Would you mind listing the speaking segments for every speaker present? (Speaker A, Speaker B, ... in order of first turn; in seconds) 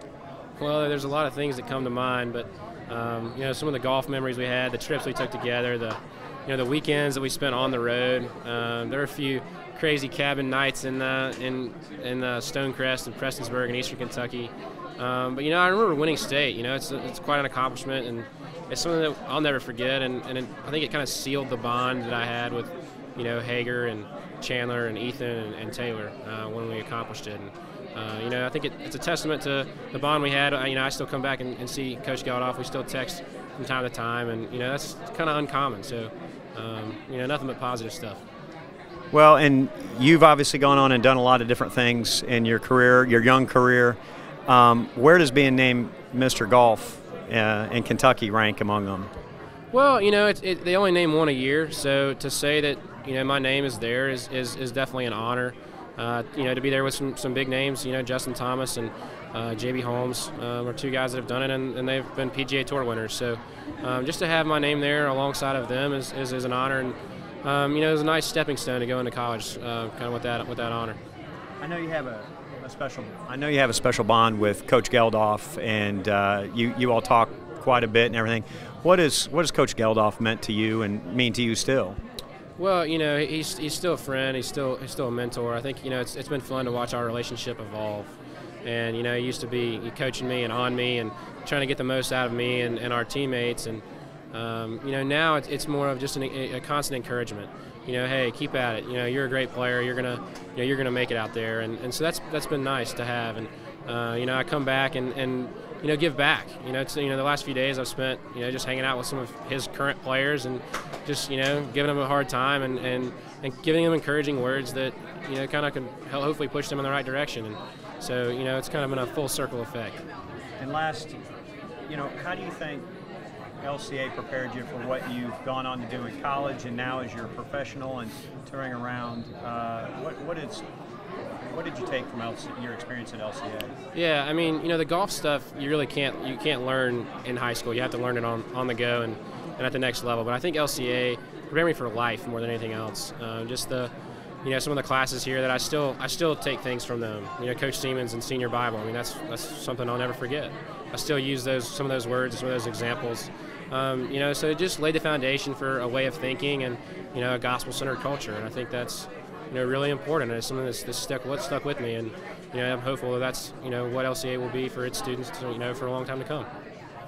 Speaker A: 0.6-38.2, 49.7-71.0, 82.6-88.1, 88.7-120.0, 133.9-143.9, 144.4-166.5
Speaker B: 39.1-49.1, 71.6-82.0, 120.6-121.2, 121.9-122.9, 123.6-130.6, 131.5-133.7